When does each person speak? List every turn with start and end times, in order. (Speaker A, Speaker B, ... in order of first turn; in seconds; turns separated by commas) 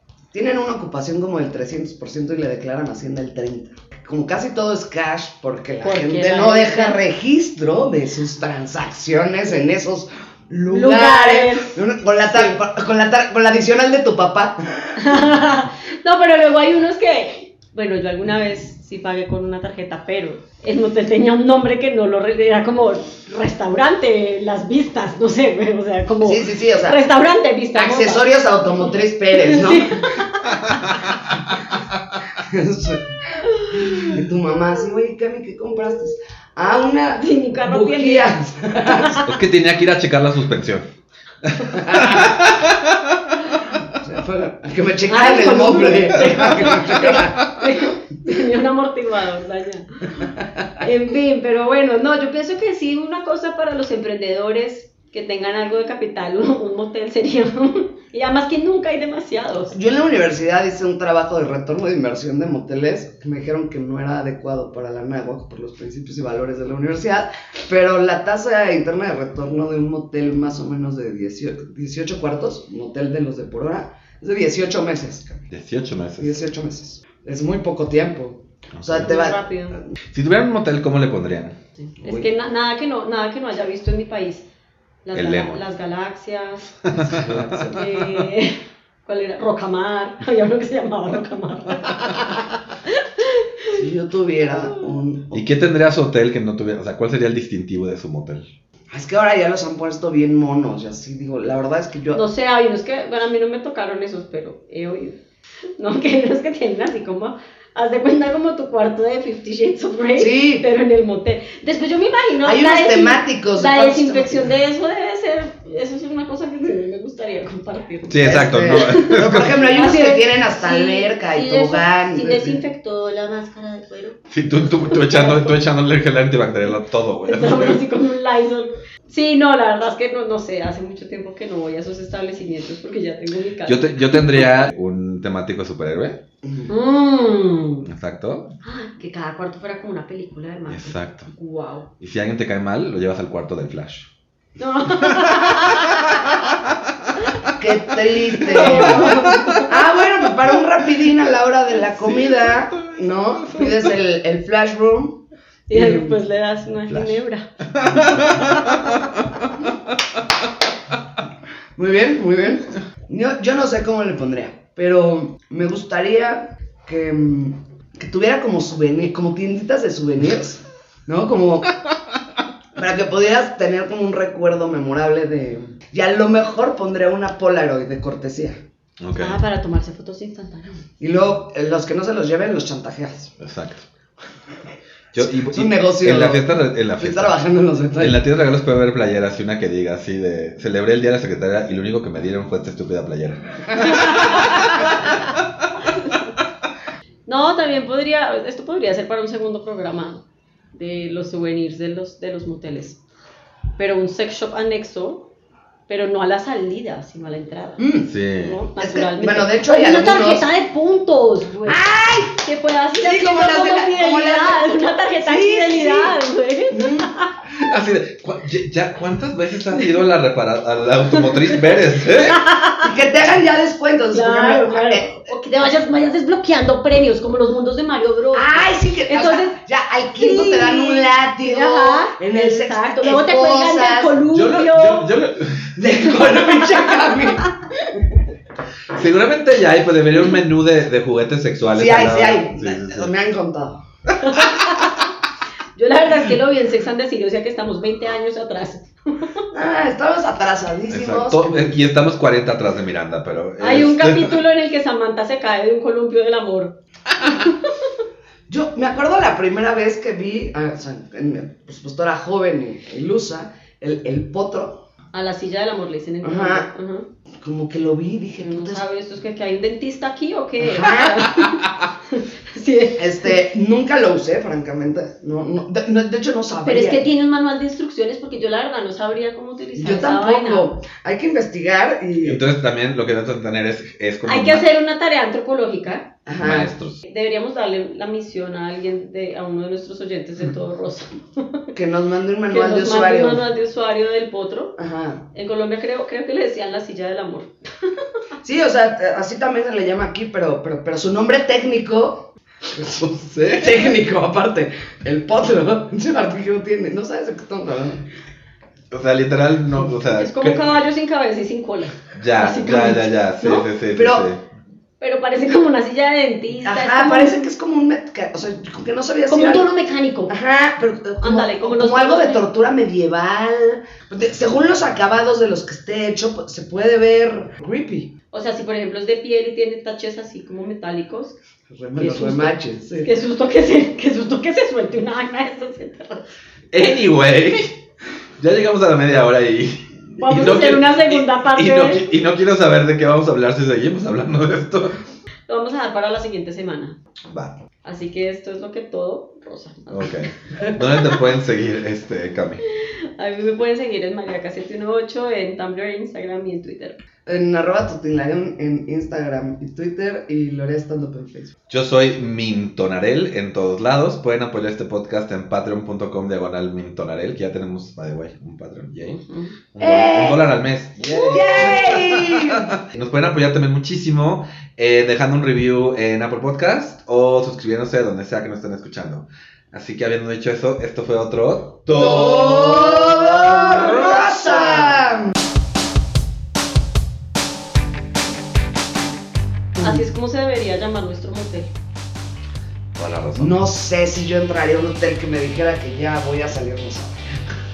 Speaker A: 0.3-15.3, Speaker B: 5.8-7.0, Speaker B: 10.7-12.6, Speaker B: 15.0-28.2, Speaker A: 26.2-27.0, Speaker A: 27.8-30.3, Speaker B: 29.3-31.1, Speaker C: 30.6-30.9, Speaker A: 31.3-39.2, Speaker B: 33.5-33.9, Speaker B: 37.1-38.3, Speaker B: 38.9-39.3, Speaker C: 39.2-40.9, Speaker C: 41.4-43.8, Speaker A: 41.8-42.3, Speaker A: 43.8-47.5, Speaker B: 45.1-50.2, Speaker C: 46.4-47.5, Speaker A: 50.2-50.7, Speaker B: 50.8-59.8, Speaker A: 59.7-75.5, Speaker C: 75.5-76.4, Speaker A: 76.2-79.9, Speaker C: 78.8-79.1, Speaker B: 78.9-79.8, Speaker C: 80.1-81.6, Speaker B: 81.8-84.5, Speaker A: 82.0-82.3, Speaker B: 85.0-86.8, Speaker C: 85.2-85.6, Speaker C: 86.8-88.3, Speaker A: 87.0-87.6, Speaker B: 87.5-93.8, Speaker A: 93.7-95.5, Speaker C: 95.3-98.5, Speaker A: 98.9-102.2, Speaker B: 102.1-105.2, Speaker B: 105.8-125.6, Speaker A: 110.2-110.7, Speaker A: 112.4-114.5, Speaker C: 118.1-119.8, Speaker A: 118.2-122.6, Speaker C: 124.3-127.8, Speaker B: 127.3-134.6, Speaker C: 133.7-136.2, Speaker A: 136.4-136.7, Speaker B: 136.7-137.9, Speaker C: 137.8-138.5, Speaker B: 138.6-141.9, Speaker C: 140.7-141.3, Speaker C: 142.0-144.1, Speaker B: 144.6-146.3, Speaker C: 145.0-146.0, Speaker A: 147.5-156.2, Speaker B: 148.4-149.7, Speaker C: 148.5-149.6, Speaker C: 151.9-152.9, Speaker B: 155.7-159.0, Speaker C: 156.9-159.6, Speaker A: 161.8-171.8, Speaker A: 172.8-178.6, Speaker C: 179.0-179.4, Speaker B: 179.1-180.8, Speaker A: 181.0-183.3, Speaker C: 183.4-183.8, Speaker C: 185.1-187.4, Speaker A: 185.2-188.2, Speaker C: 188.0-195.4, Speaker B: 193.8-194.7, Speaker B: 195.9-196.2, Speaker B: 197.3-203.0, Speaker B: 203.8-205.3, Speaker B: 205.9-207.9, Speaker A: 207.8-208.1, Speaker C: 208.1-208.6, Speaker B: 208.4-217.3, Speaker A: 208.8-210.5, Speaker A: 211.7-212.4, Speaker A: 212.9-216.2, Speaker A: 216.7-217.1, Speaker C: 217.5-222.4, Speaker B: 221.2-222.9, Speaker A: 222.8-225.3, Speaker B: 224.1-229.6, Speaker A: 228.3-234.2, Speaker B: 230.2-235.1, Speaker C: 234.3-235.8, Speaker A: 235.8-238.2, Speaker B: 236.1-237.8, Speaker C: 238.9-243.1, Speaker A: 241.7-243.8, Speaker B: 244.2-245.0, Speaker B: 245.8-249.4, Speaker A: 249.5-251.8, Speaker C: 250.9-254.4, Speaker B: 253.6-257.9, Speaker A: 258.5-264.8, Speaker B: 265.1-267.1, Speaker A: 266.2-266.7, Speaker A: 267.4-268.8, Speaker B: 268.4-273.4, Speaker A: 270.6-271.5, Speaker A: 273.0-277.0, Speaker B: 276.6-280.7, Speaker A: 279.8-282.4, Speaker C: 282.2-284.7, Speaker B: 284.3-286.1, Speaker A: 286.3-286.7, Speaker C: 286.4-287.0, Speaker B: 287.0-291.8, Speaker A: 291.7-293.5, Speaker B: 292.5-294.8, Speaker A: 294.8-295.2, Speaker B: 295.3-298.1, Speaker A: 298.4-308.1, Speaker C: 303.0-303.9, Speaker C: 308.9-310.8, Speaker B: 310.1-313.7, Speaker C: 312.1-314.4, Speaker A: 313.9-314.3, Speaker B: 315.0-317.4, Speaker A: 316.6-319.7, Speaker B: 319.3-320.3, Speaker A: 320.3-328.1, Speaker B: 321.2-322.4, Speaker B: 328.3-331.4, Speaker A: 331.7-333.1, Speaker B: 332.0-336.4, Speaker C: 336.7-337.8, Speaker C: 338.4-345.0, Speaker B: 340.2-342.1, Speaker B: 345.5-347.0, Speaker C: 347.3-347.6, Speaker B: 347.8-350.3, Speaker C: 349.9-352.6, Speaker B: 353.2-357.0, Speaker A: 357.3-361.5, Speaker C: 361.7-369.2, Speaker B: 369.3-369.5, Speaker C: 369.7-384.1, Speaker A: 369.8-370.5, Speaker A: 371.0-372.8, Speaker A: 381.9-385.3, Speaker B: 383.6-384.6, Speaker B: 389.8-391.7, Speaker C: 392.9-393.5, Speaker A: 393.4-397.5